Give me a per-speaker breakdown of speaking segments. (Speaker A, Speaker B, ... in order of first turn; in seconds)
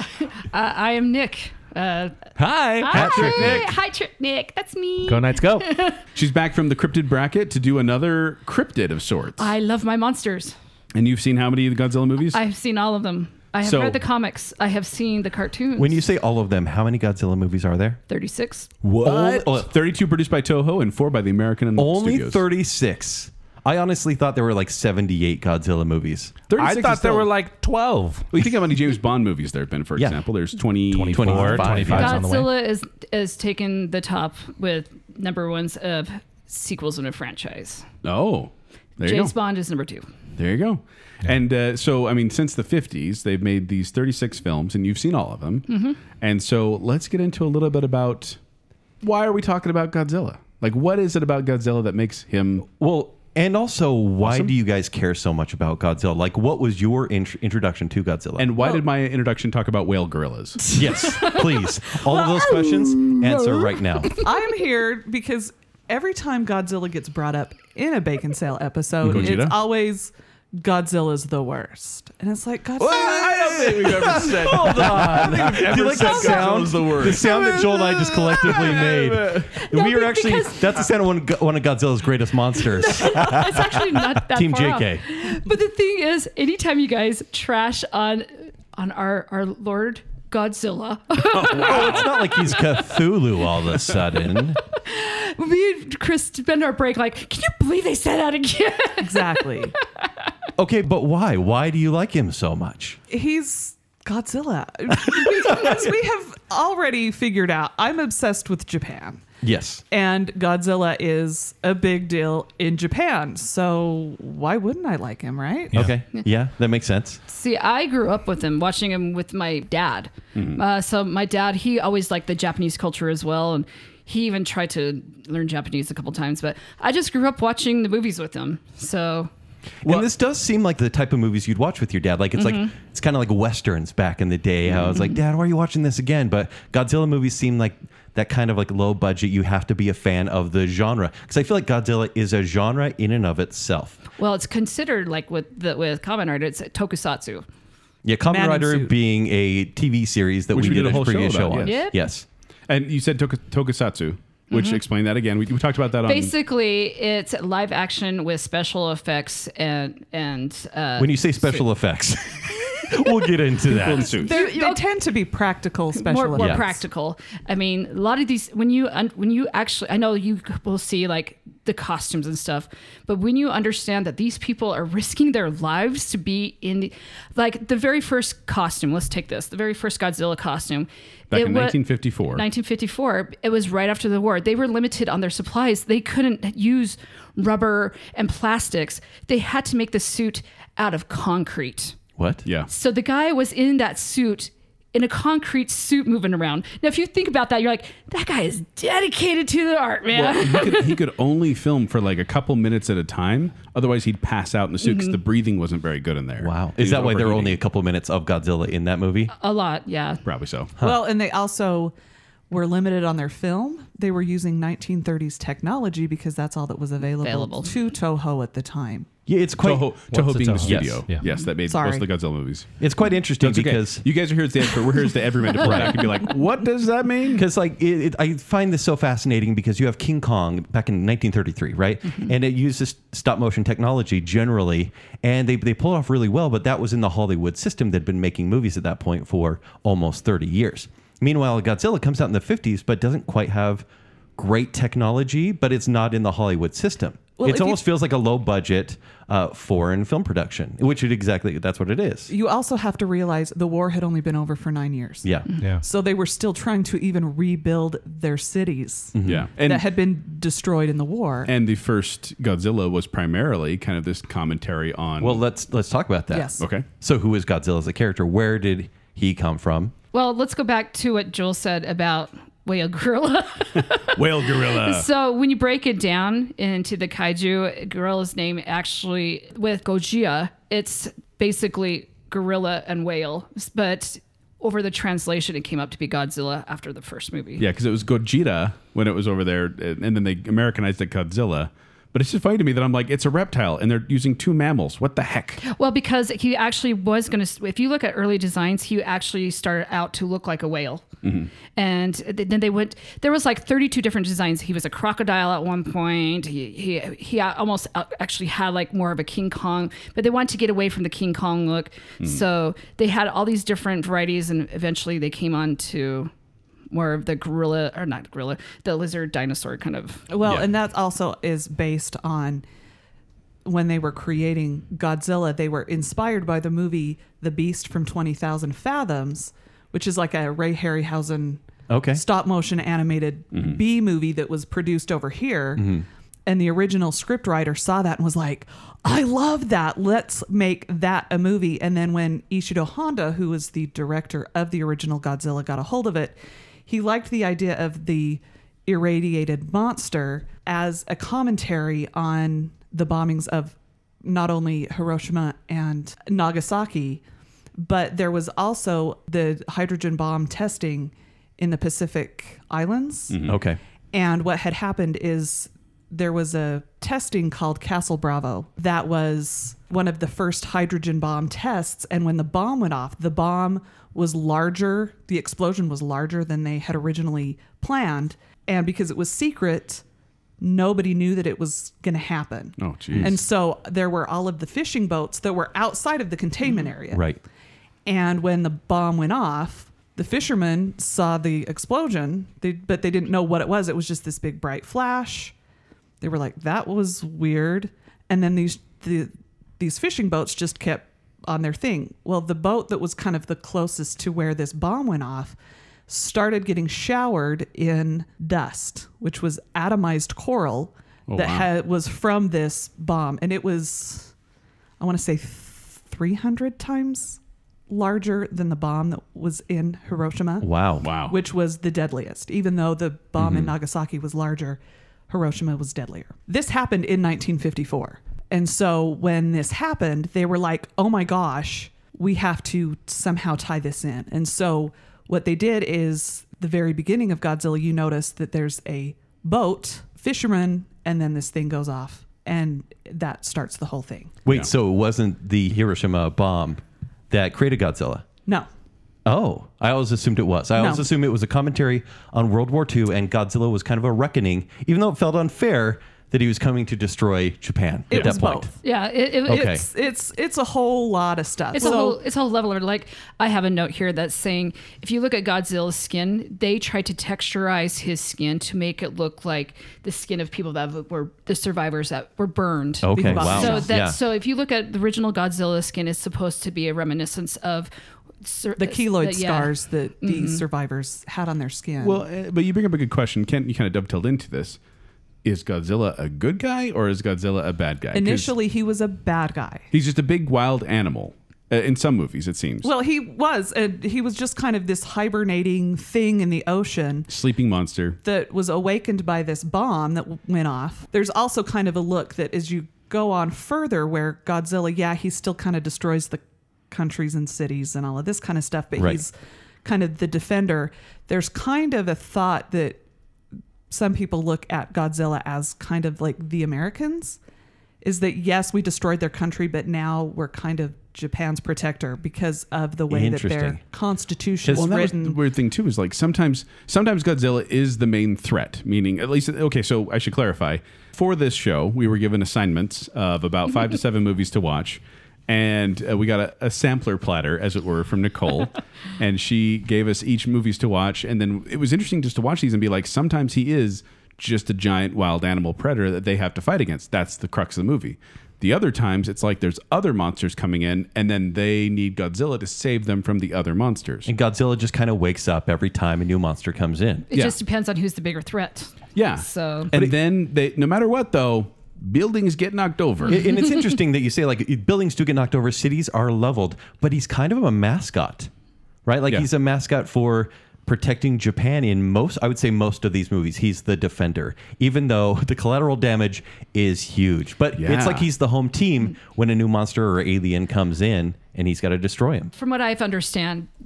Speaker A: 0.2-6.0, 9.4-10.6, 12.3-16.0, 18.1-18.7, 31.9-37.9, 39.0-40.1, 45.7-46.0, 79.5-80.8, 82.6-92.4, 94.8-99.5, 117.3-129.3, 132.4-132.7, 144.2-147.4, 151.6-152.0, 154.5-154.8, 156.0-161.3, 164.1-164.8, 165.9-192.0, 192.7-201.0, 204.8-205.2, 209.4-210.2, 217.2-217.7, 270.1-287.7, 295.6-301.1, 301.8-316.3, 316.9-320.2, 458.8-459.8, 461.7-477.9, 478.4-480.6, 557.3-559.9, 582.5-583.7
Speaker B: 2.4-3.7, 15.8-18.0, 19.0-19.7, 21.8-26.4, 31.1-32.2, 52.9-58.5, 60.7-64.2, 69.0-69.4, 73.8-85.0, 91.4-94.6, 100.6-103.0, 105.5-105.8, 109.4-109.8, 115.7-117.2, 129.8-144.0, 148.1-152.3, 161.0-164.1, 166.4-166.6, 192.2-192.4, 206.4-209.3, 219.3-219.9, 220.6-221.1, 222.8-224.1, 225.6-226.0, 227.3-243.9, 244.4-252.3, 255.2-255.5, 259.1-259.4, 265.2-269.9, 331.9-332.2, 335.8-336.1, 363.5-363.8, 387.1-387.4, 420.6-421.1, 423.4-423.7, 444.5-448.3, 449.3-458.7, 459.5-459.9, 473.0-474.2, 509.0-509.2, 523.1-523.8, 554.3-557.3, 563.3-568.5, 569.0-582.5
Speaker C: 2.8-3.6, 5.1-5.7, 18.8-19.2, 26.6-28.5, 30.9-32.5, 220.1-221.2
Speaker D: 3.0-3.5, 6.1-9.5, 10.9-12.4, 13.6-14.0, 18.8-22.4, 26.5-27.3, 28.3-32.2, 38.0-39.3, 40.4-48.4, 49.0-53.1, 54.2-54.5, 58.4-61.0, 63.0-63.3, 69.0-69.6, 72.8-79.5, 91.3-92.0, 120.3-120.6, 150.5-151.9, 152.7-156.3, 163.7-164.3, 181.3-182.5, 200.1-207.6, 210.2-210.8, 219.6-222.7, 223.4-227.5, 259.2-259.9, 261.5-265.4, 266.6-266.9, 274.1-275.1, 287.6-295.6, 301.2-301.5, 320.4-320.7, 333.5-333.8, 363.3-363.6, 382.8-383.4, 411.3-411.7, 421.0-421.4, 482.0-484.8, 485.4-488.6, 489.9-492.9, 497.3-498.2, 524.7-554.3, 559.1-563.5, 577.8-578.3
Speaker E: 58.6-58.9, 62.0-62.6, 64.2-77.1, 99.0-99.8, 103.1-109.2, 109.9-115.8, 148.3-148.9, 164.1-166.8, 210.8-211.9, 212.5-219.1, 221.6-222.1, 247.4-247.8, 252.3-255.3, 255.8-261.5, 266.3-266.6, 320.3-322.6, 323.6-331.6, 332.1-335.9, 336.5-357.2, 357.8-363.4, 364.1-380.0, 380.6-387.3, 388.1-395.5, 396.2-405.6, 406.1-414.3, 415.0-420.7, 421.3-444.4, 450.8-451.1, 458.1-458.8, 459.5-462.2, 473.1-473.9, 478.8-482.2, 488.1-489.9, 492.8-497.3, 498.2-509.3, 509.8-513.0, 513.9-517.4, 518.0-525.4